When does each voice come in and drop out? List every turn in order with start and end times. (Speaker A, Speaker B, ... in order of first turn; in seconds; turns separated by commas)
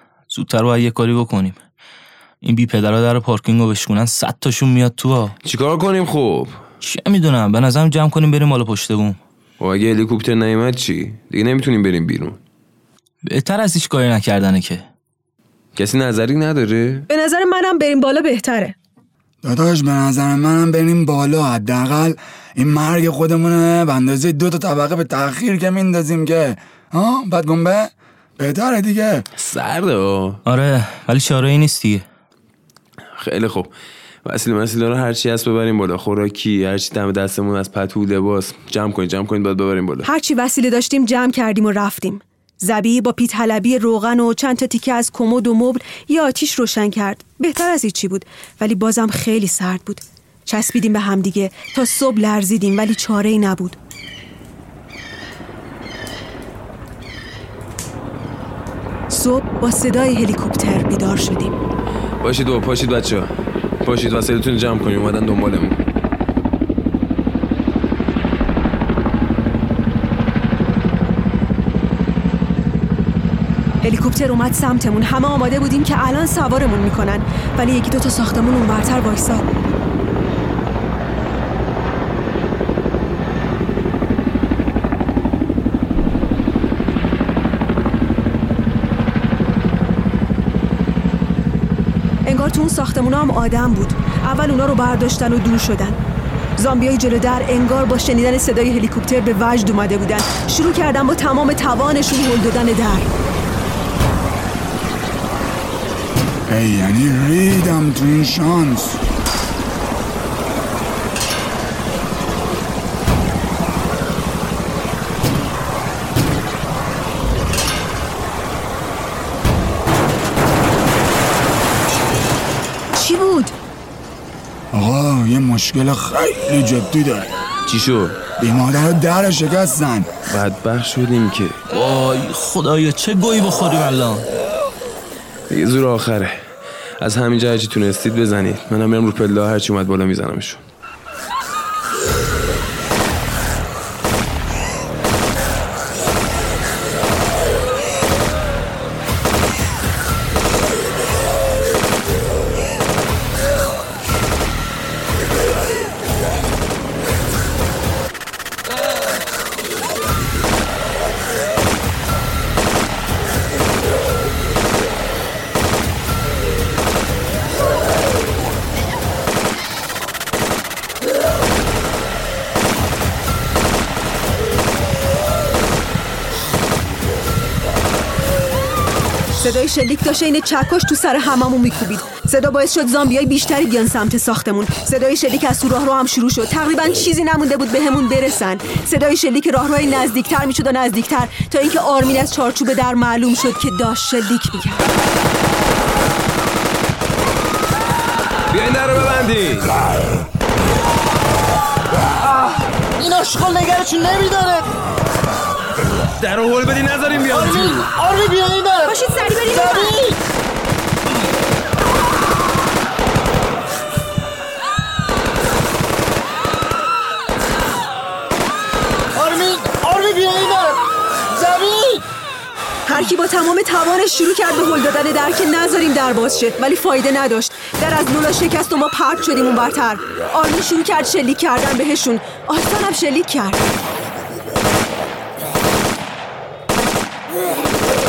Speaker A: 0.3-1.6, Speaker A: 2.4-5.3, Speaker B: 5.4-6.6, Speaker A: 6.8-9.2, Speaker B: 9.6-12.4, Speaker A: 13.3-14.8, Speaker B: 15.8-17.1, Speaker C: 17.1-18.8, Speaker D: 19.4-29.2, Speaker B: 29.4-30.4, Speaker A: 30.4-32.0, Speaker B: 33.2-33.7, Speaker B: 34.2-40.1, Speaker C: 40.0-53.8, Speaker C: 59.1-61.5, Speaker B: 62.2-65.8, Speaker C: 73.8-79.5, Speaker C: 92.2-96.0, Speaker C: 96.6-103.1, Speaker D: 106.5-109.0, Speaker C: 123.0-123.5, Speaker D: 124.7-127.3, Speaker B: 127.7-128.2, Speaker D: 128.4-130.1, Speaker B: 130.3-131.6, Speaker A: 131.7-134.2, Speaker B: 135.5-140.6, Speaker C: 179.4-194.8, Speaker B: 198.5-199.7, Speaker E: 202.3-204.7, Speaker B: 206.2-207.8, Speaker E: 207.2-210.1, Speaker C: 208.8-210.1, Speaker E: 219.1-222.0, Speaker C: 222.8-233.8